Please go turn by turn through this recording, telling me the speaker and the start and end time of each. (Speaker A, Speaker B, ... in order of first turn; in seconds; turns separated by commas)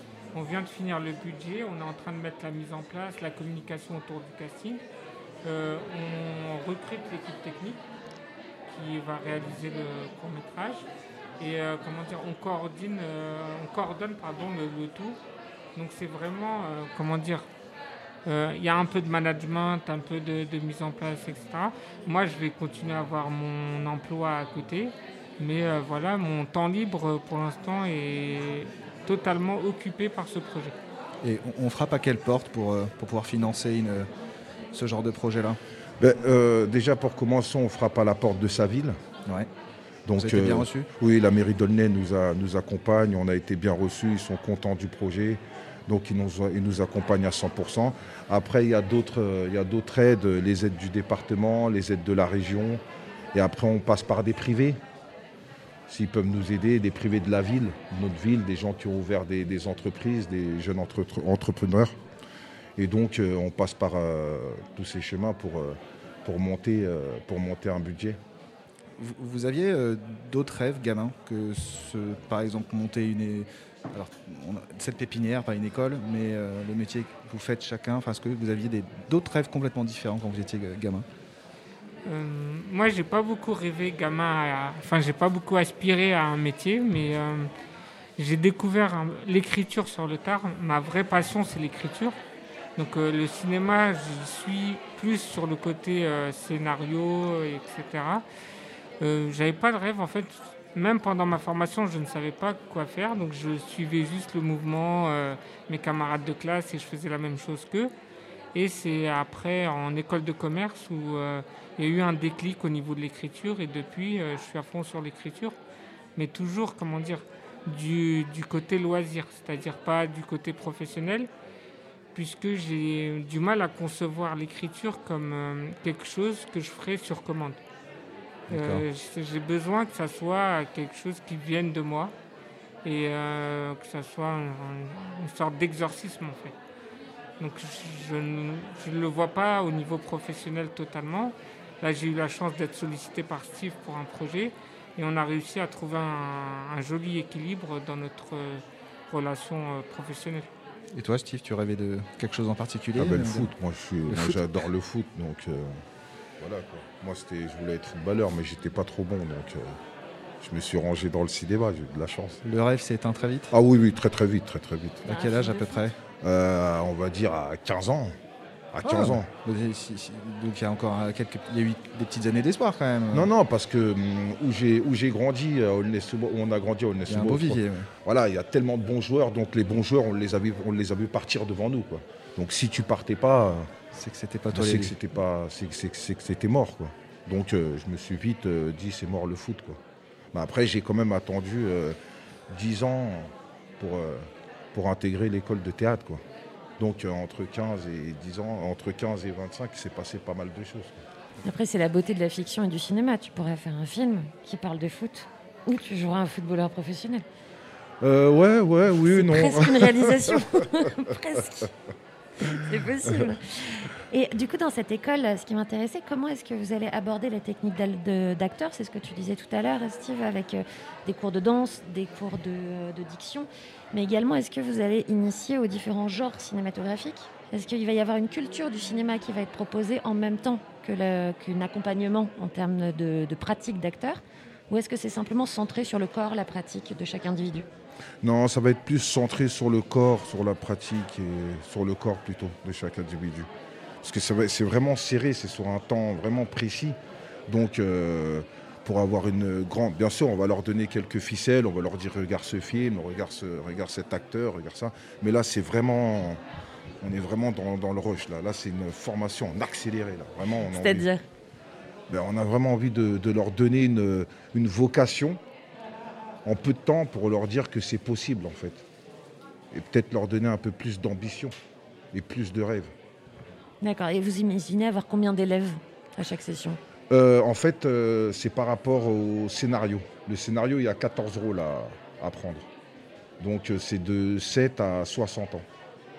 Speaker A: 0.3-4.8, Speaker A: 5.4-7.8, Speaker A: 8.7-10.8, Speaker A: 11.4-15.2, Speaker A: 15.7-17.4, Speaker A: 18.3-30.7, Speaker B: 31.2-34.1, Speaker B: 34.7-35.6, Speaker C: 36.0-39.0, Speaker C: 40.0-52.8, Speaker B: 40.2-40.9, Speaker C: 53.3-54.8, Speaker C: 55.9-62.0, Speaker C: 62.8-68.2, Speaker B: 69.0-81.0, Speaker A: 82.0-87.5, Speaker A: 88.2-92.1, Speaker A: 92.8-98.2, Speaker A: 99.0-107.9, Speaker A: 108.5-115.5, Speaker A: 116.2-121.3, Speaker A: 122.1-127.6, Speaker B: 128.5-128.8, Speaker A: 128.5-132.1, Speaker A: 132.8-136.5, Speaker A: 137.4-150.5, Speaker B: 150.9-153.5, Speaker C: 152.9-155.8, Speaker B: 154.1-154.4, Speaker C: 156.4-159.7, Speaker C: 160.4-162.4, Speaker B: 162.4-163.5, Speaker C: 163.5-165.1, Speaker B: 165.1-165.9, Speaker D: 165.1-165.8, Speaker C: 166.2-168.1, Speaker C: 168.7-169.3, Speaker B: 168.8-173.3, Speaker C: 173.1-183.7, Speaker B: 177.1-177.9, Speaker B: 183.9-184.9, Speaker C: 184.5-189.8, Speaker C: 190.3-192.0, Speaker C: 192.5-196.2, Speaker C: 196.8-200.9, Speaker D: 201.4-207.2, Speaker C: 208.0-210.4, Speaker D: 209.1-211.7, Speaker D: 212.5-237.7, Speaker C: 238.2-243.5, Speaker C: 244.0-256.4, Speaker C: 257.0-261.1, Speaker D: 260.7-261.2, Speaker C: 262.1-265.4, Speaker C: 266.4-268.8, Speaker C: 269.7-271.5, Speaker C: 272.1-272.9, Speaker D: 273.8-276.8, Speaker C: 277.1-282.7, Speaker C: 283.4-285.7